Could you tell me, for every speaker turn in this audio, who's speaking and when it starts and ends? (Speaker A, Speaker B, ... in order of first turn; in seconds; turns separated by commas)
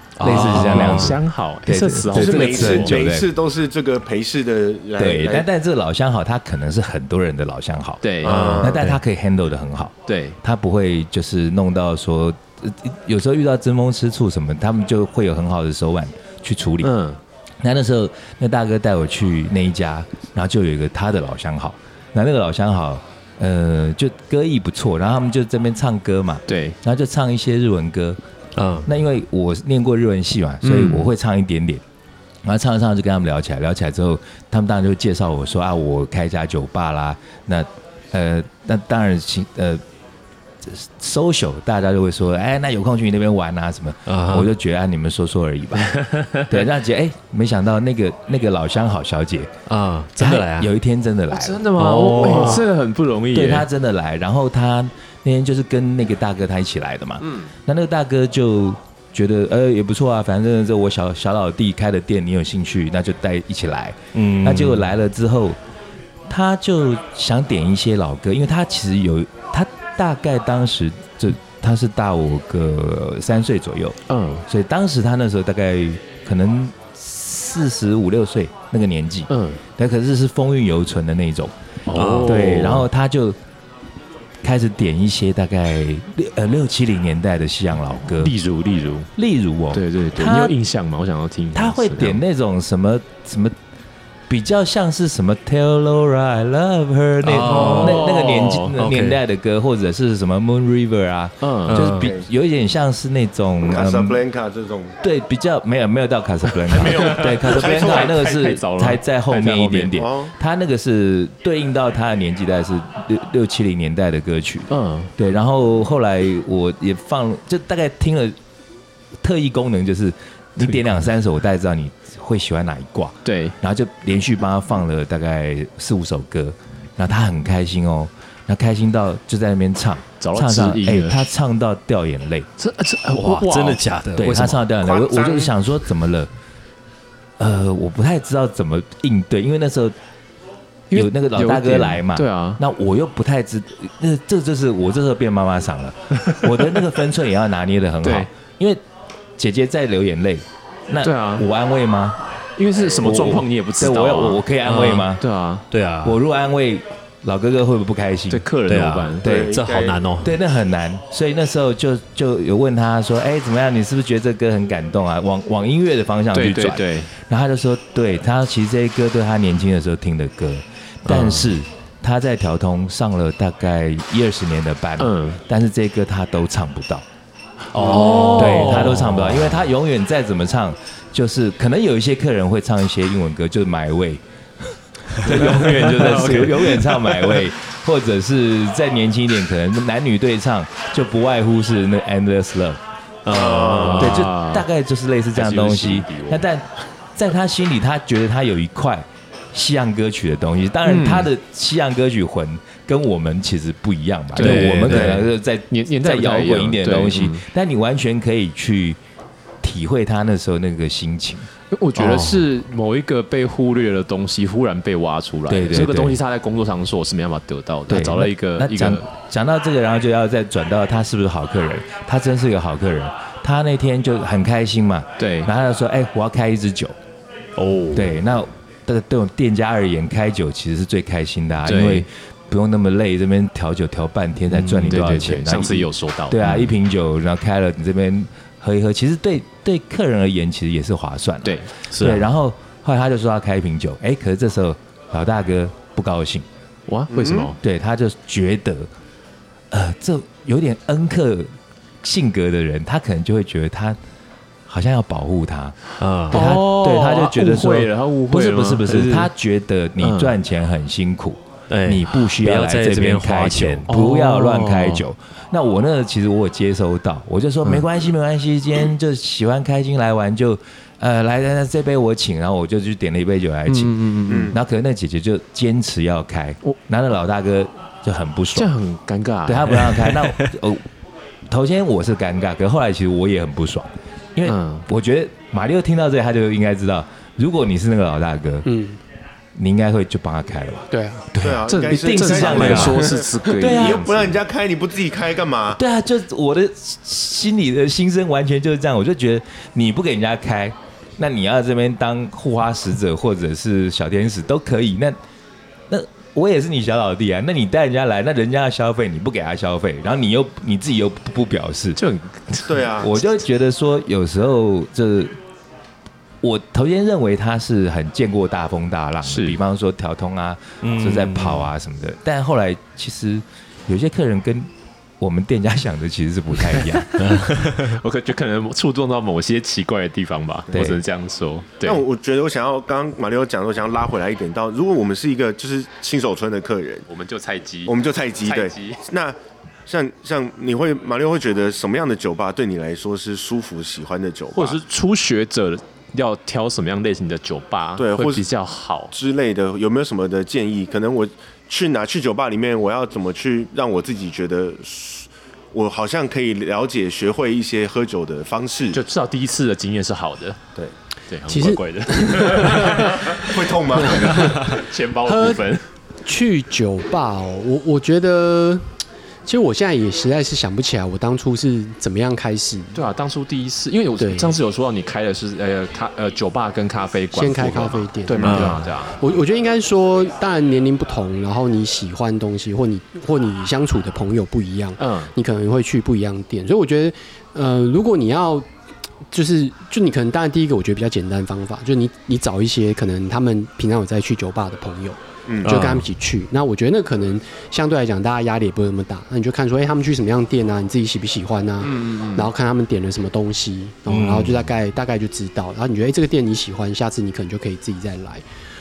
Speaker A: 0.2-1.2, Speaker B: 0.2-3.3, Speaker C: 0.2-3.0, Speaker D: 2.1-5.5, Speaker B: 5.0-8.1, Speaker C: 8.0-8.5, Speaker D: 8.2-8.8, Speaker A: 8.2-9.0, Speaker B: 8.6-16.9, Speaker C: 10.1-10.4, Speaker C: 16.8-17.2, Speaker B: 17.6-28.2, Speaker C: 26.5-26.8, Speaker A: 28.6-28.9, Speaker B: 28.9-31.8, Speaker C: 30.6-31.1, Speaker B: 32.4-39.8, Speaker B: 40.6-49.5, Speaker A: 44.1-44.5, Speaker C: 45.9-46.6, Speaker A: 49.7-50.7, Speaker B: 50.2-51.7, Speaker C: 51.3-53.7, Speaker A: 51.8-52.6, Speaker B: 53.3-65.6, Speaker A: 64.1-64.9, Speaker B: 66.3-81.5, Speaker C: 74.1-74.5, Speaker C: 79.3-79.6, Speaker C: 81.9-82.8, Speaker A: 81.9-82.8, Speaker B: 82.2-83.4, Speaker B: 84.4-88.3, Speaker C: 88.1-89.1, Speaker B: 89.2-90.6, Speaker C: 89.7-92.2, Speaker B: 91.5-93.5, Speaker B: 94.3-104.2, Speaker A: 97.2-98.2, Speaker C: 97.5-98.8, Speaker A: 98.8-99.2, Speaker C: 101.4-101.9, Speaker A: 101.7-102.1, Speaker D: 101.9-102.3, Speaker D: 103.7-105.0, Speaker B: 105.0-118.4, Speaker C: 106.7-110.0, Speaker D: 106.8-108.3, Speaker D: 109.9-110.3, Speaker C: 114.7-115.1, Speaker B: 119.2-132.5, Speaker C: 123.2-123.5, Speaker C: 130.2-131.2, Speaker C: 132.6-133.8, Speaker A: 133.1-134.7, Speaker B: 134.2-136.3, Speaker D: 134.8-135.5, Speaker B: 137.4-139.9, Speaker C: 140.9-142.6, Speaker B: 140.9-148.8, Speaker C: 148.0-148.3, Speaker B: 149.4-152.2, Speaker C: 151.0-151.5, Speaker C: 152.6-154.4, Speaker B: 152.9-155.2, Speaker A: 154.7-155.1, Speaker C: 155.0-155.7, Speaker A: 155.7-156.2, Speaker B: 156.0-158.4, Speaker C: 158.3-159.3, Speaker A: 158.7-160.3, Speaker D: 159.2-160.0, Speaker B: 159.2-159.6, Speaker B: 160.2-177.1, Speaker C: 166.3-167.1, Speaker A: 171.1-171.5, Speaker C: 175.0-175.4, Speaker C: 177.7-179.0, Speaker B: 177.8-184.2, Speaker A: 177.8-179.7, Speaker B: 185.2-192.8, Speaker C: 185.2-187.4, Speaker A: 186.1-186.4, Speaker A: 193.3-194.3, Speaker D: 193.3-194.1, Speaker C: 193.9-194.7, Speaker B: 194.0-209.0, Speaker C: 195.3-196.4, Speaker C: 200.8-201.3, Speaker C: 204.3-207.4, Speaker A: 204.4-205.3, Speaker B: 209.6-211.5, Speaker C: 211.7-219.1, Speaker A: 212.0-212.4, Speaker B: 215.5-216.2, Speaker B: 217.9-227.0, Speaker C: 225.2-225.5, Speaker C: 227.6-228.1, Speaker B: 227.9-246.5, Speaker C: 231.7-232.1, Speaker C: 234.7-236.7, Speaker C: 241.4-241.7, Speaker A: 241.9-242.3, Speaker C: 246.9-247.6, Speaker D: 247.1-247.5, Speaker B: 247.6-248.9, Speaker B: 249.7-254.0, Speaker B: 254.7-255.8, Speaker A: 256.0-256.5, Speaker B: 256.3-278.7, Speaker C: 256.3-259.3, Speaker C: 260.0-260.3, Speaker A: 261.7-264.9, Speaker C: 263.9-264.9, Speaker C: 273.7-274.5, Speaker D: 274.3-274.6, Speaker C: 278.6-280.1, Speaker B: 279.5-280.9, Speaker B: 281.5-288.7, Speaker C: 284.4-284.9, Speaker E: 288.7-289.0, Speaker B: 289.6-294.4, Speaker E: 290.9-291.2, Speaker D: 291.4-295.8, Speaker C: 291.7-294.3, Speaker A: 292.5-293.0, Speaker B: 295.8-305.2, Speaker B: 305.9-312.0, Speaker C: 312.0-312.8, Speaker D: 312.7-313.2, Speaker B: 313.0-315.4, Speaker B: 316.4-324.7, Speaker C: 319.2-319.6, Speaker A: 320.8-321.7, Speaker B: 325.2-327.3, Speaker C: 326.7-332.0, Speaker A: 327.2-328.0, Speaker B: 330.7-331.0, Speaker D: 331.8-337.1, Speaker C: 337.1-339.0, Speaker D: 337.9-339.4, Speaker D: 339.9-344.8, Speaker C: 344.6-349.1, Speaker D: 348.0-348.5, Speaker D: 349.1-359.0, Speaker C: 358.9-360.6, Speaker C: 361.3-363.5, Speaker E: 361.5-365.7, Speaker D: 363.4-364.7, Speaker C: 364.1-365.9, Speaker E: 366.2-368.9, Speaker E: 369.5-373.0, Speaker C: 372.9-379.2, Speaker E: 374.2-374.6, Speaker E: 377.3-388.7, Speaker A: 378.4-378.8, Speaker C: 385.0-385.3, Speaker E: 389.3-408.4, Speaker D: 395.5-395.8, Speaker A: 395.6-396.1, Speaker D: 401.9-402.4, Speaker A: 404.1-404.7